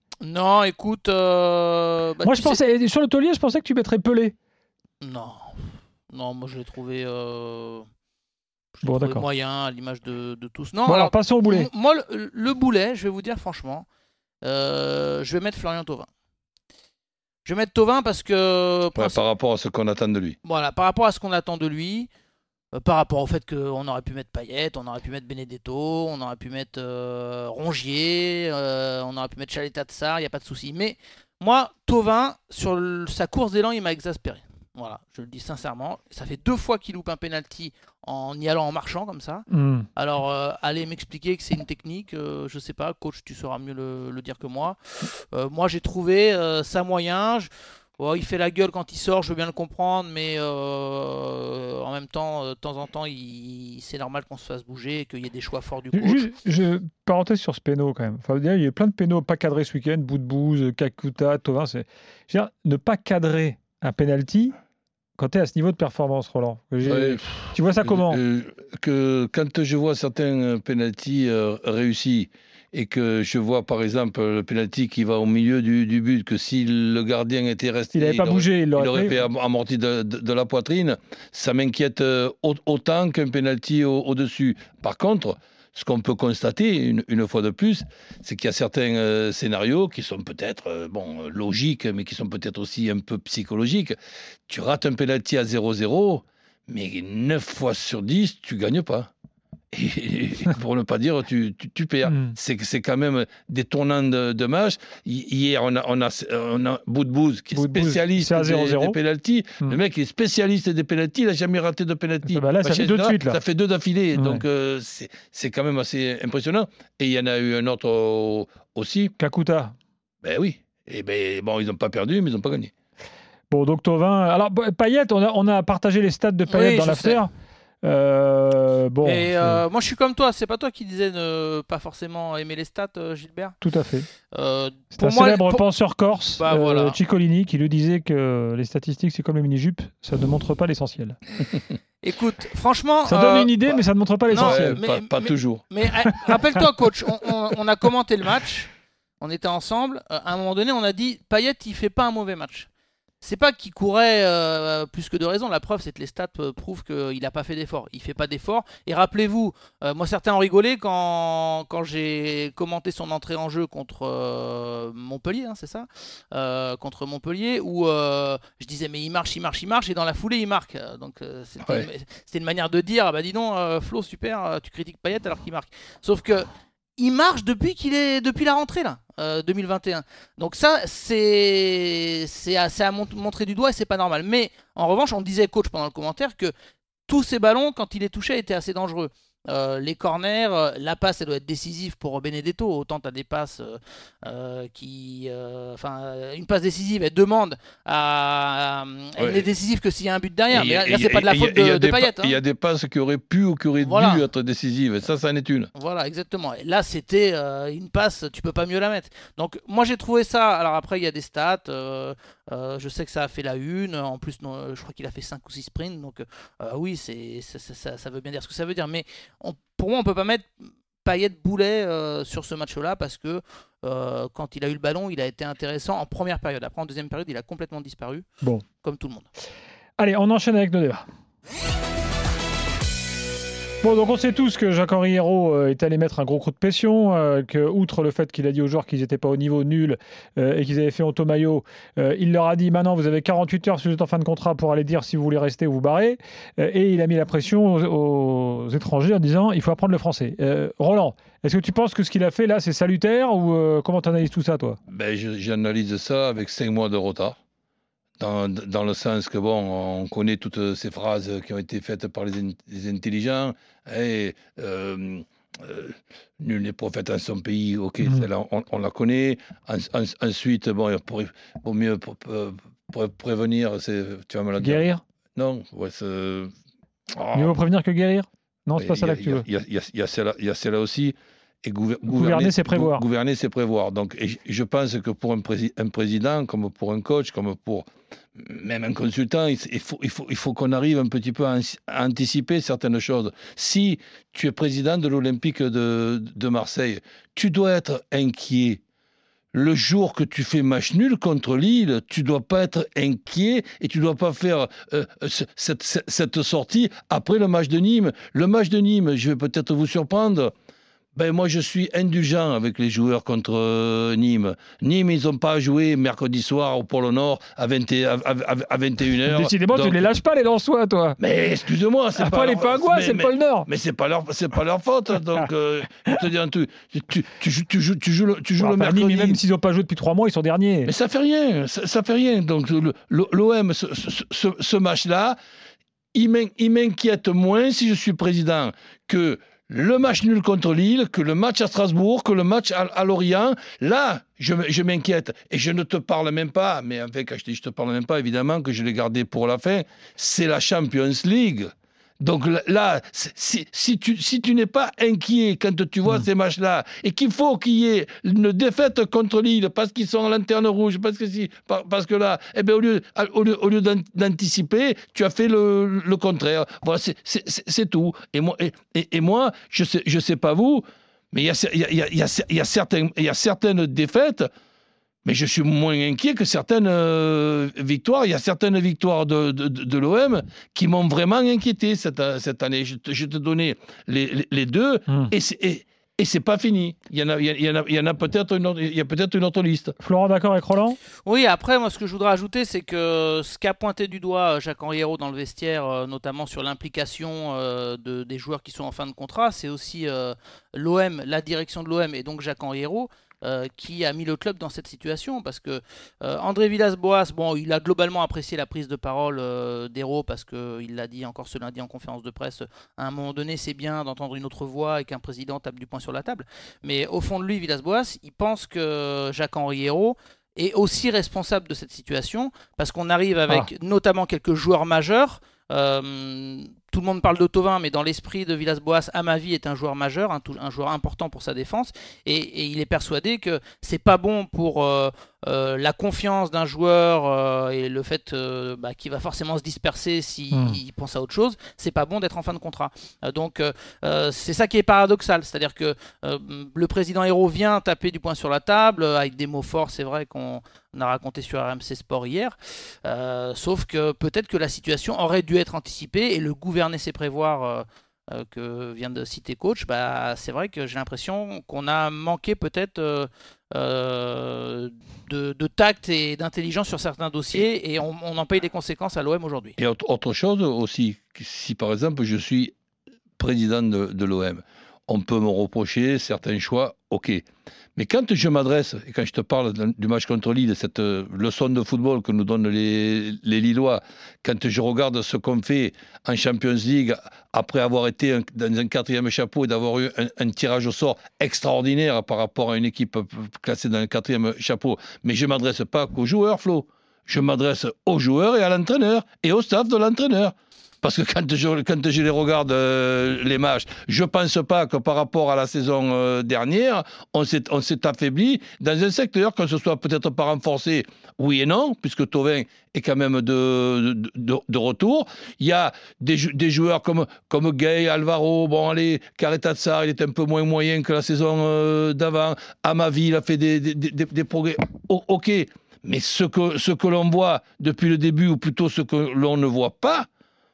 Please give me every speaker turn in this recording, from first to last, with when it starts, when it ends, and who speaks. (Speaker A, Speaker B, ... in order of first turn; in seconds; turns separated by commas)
Speaker A: 0.2-2.6, Speaker B: 2.2-4.3, Speaker A: 5.0-7.8, Speaker A: 8.8-13.8, Speaker B: 8.8-9.2, Speaker B: 10.8-11.7, Speaker A: 14.4-16.1, Speaker A: 17.4-19.2, Speaker C: 18.9-20.4, Speaker A: 20.4-22.1, Speaker A: 22.7-56.2, Speaker B: 39.5-39.9, Speaker B: 55.9-64.5, Speaker B: 65.2-68.2, Speaker C: 66.8-94.0, Speaker B: 77.9-79.1, Speaker C: 94.5-99.1, Speaker C: 99.7-119.1, Speaker B: 102.1-102.3, Speaker B: 107.5-109.0, Speaker B: 112.2-113.4, Speaker B: 114.1-114.4, Speaker B: 119.2-119.7, Speaker C: 120.2-122.7, Speaker B: 123.5-127.3, Speaker A: 126.5-127.2, Speaker B: 127.8-129.6, Speaker A: 129.0-133.6, Speaker B: 133.6-134.1, Speaker A: 134.3-137.0, Speaker B: 134.9-141.2, Speaker A: 142.0-143.6, Speaker B: 143.1-144.8, Speaker A: 144.3-152.7, Speaker C: 144.3-145.6, Speaker A: 153.2-186.5, Speaker A: 187.1-202.4, Speaker C: 199.2-199.5, Speaker C: 200.5-205.7, Speaker A: 203.8-204.2, Speaker A: 205.8-220.5, Speaker A: 221.0-228.2, Speaker A: 228.8-229.3, Speaker B: 230.0-231.1, Speaker B: 233.8-254.8, Speaker C: 254.9-257.4, Speaker C: 258.2-274.8, Speaker B: 274.6-275.0, Speaker C: 275.4-276.5, Speaker C: 277.1-277.6, Speaker B: 277.3-279.4, Speaker C: 278.8-298.8, Speaker B: 282.1-283.0, Speaker C: 299.5-310.5, Speaker C: 311.1-320.0, Speaker B: 319.2-321.2, Speaker C: 321.2-329.4, Speaker B: 322.2-323.7, Speaker B: 328.6-330.9, Speaker C: 330.9-335.4, Speaker C: 336.1-374.5, Speaker C: 375.2-389.9, Speaker B: 390.0-391.0, Speaker A: 391.2-469.8, Speaker B: 440.5-440.8, Speaker C: 469.8-472.7, Speaker C: 473.4-477.4, Speaker C: 478.0-530.3